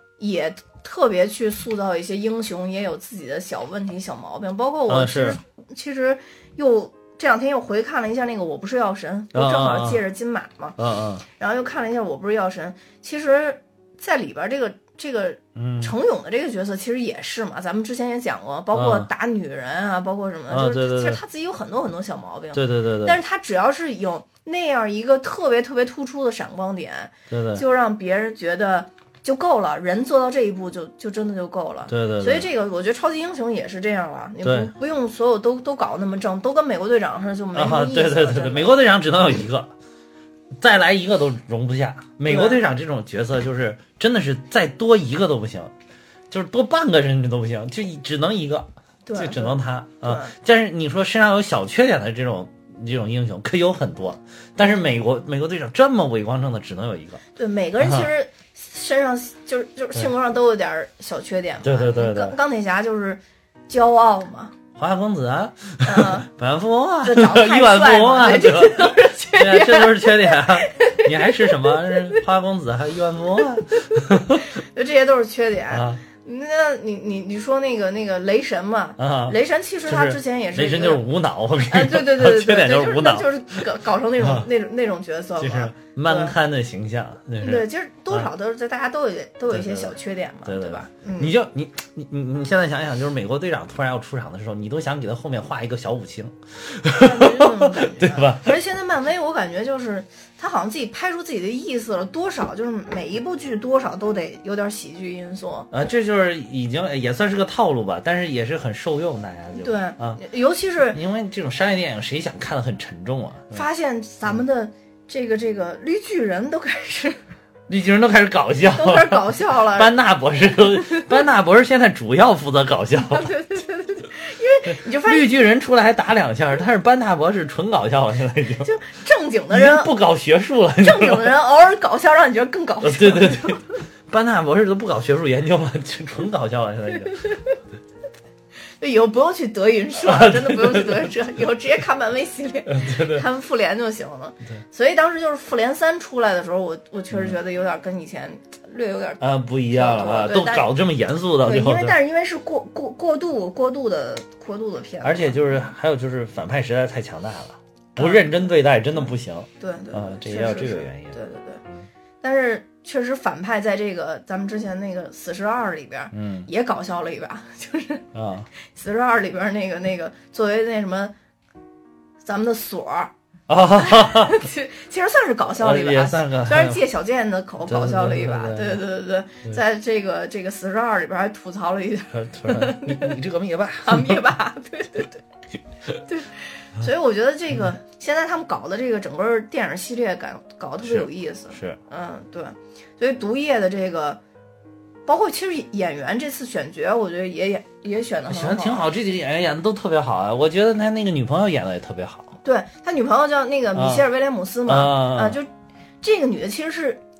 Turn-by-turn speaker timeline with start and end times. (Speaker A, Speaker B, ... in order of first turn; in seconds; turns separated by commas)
Speaker A: 0.2-10.8, Speaker B: 4.9-5.4, Speaker B: 9.3-10.0, Speaker B: 10.8-11.2, Speaker A: 11.3-38.8, Speaker B: 15.6-15.9, Speaker B: 18.7-19.1, Speaker B: 20.5-21.2, Speaker B: 22.5-23.2, Speaker B: 27.3-27.6, Speaker B: 31.9-32.5, Speaker B: 34.4-34.7, Speaker B: 37.5-39.7, Speaker B: 40.6-45.7, Speaker A: 42.3-42.6, Speaker B: 46.3-57.2, Speaker A: 49.1-50.3, Speaker A: 57.4-64.5, Speaker B: 57.8-58.1, Speaker B: 61.6-62.4, Speaker B: 64.8-74.5, Speaker A: 65.8-66.3, Speaker A: 67.0-72.2, Speaker A: 73.9-81.0, Speaker B: 75.7-76.0, Speaker B: 79.0-83.3, Speaker A: 81.7-86.3, Speaker B: 84.2-84.5, Speaker B: 85.4-88.3, Speaker A: 87.4-91.3, Speaker B: 89.5-98.5, Speaker A: 97.0-105.7, Speaker B: 105.7-110.2, Speaker A: 109.6-111.0, Speaker B: 110.9-113.6, Speaker A: 113.5-117.2, Speaker B: 117.7-123.3, Speaker A: 118.7-119.9, Speaker A: 120.5-121.1, Speaker A: 123.0-125.3, Speaker B: 124.9-128.7, Speaker A: 128.6-129.9, Speaker B: 129.5-131.4, Speaker A: 130.8-133.8, Speaker B: 132.8-137.3, Speaker A: 137.2-137.6, Speaker A: 138.8-149.2, Speaker B: 140.0-141.2, Speaker B: 142.7-143.2, Speaker B: 147.1-147.4, Speaker B: 149.2-152.0, Speaker A: 149.7-150.7, Speaker A: 151.4-155.7, Speaker B: 155.0-161.2, Speaker A: 158.0-158.3, Speaker A: 159.6-161.6, Speaker A: 162.2-168.1, Speaker B: 166.1-166.5, Speaker B: 168.1-168.5, Speaker A: 168.7-171.1, Speaker A: 172.2-173.1, Speaker B: 173.5-174.4, Speaker A: 173.8-183.2, Speaker B: 175.6-176.8, Speaker B: 177.7-178.8, Speaker B: 182.1-184.2, Speaker A: 183.8-185.2, Speaker A: 186.1-194.2, Speaker B: 190.8-191.8, Speaker A: 195.1-198.9, Speaker B: 198.3-202.3, Speaker A: 202.4-205.5, Speaker B: 203.8-204.1, Speaker B: 204.7-205.4, Speaker A: 206.0-207.0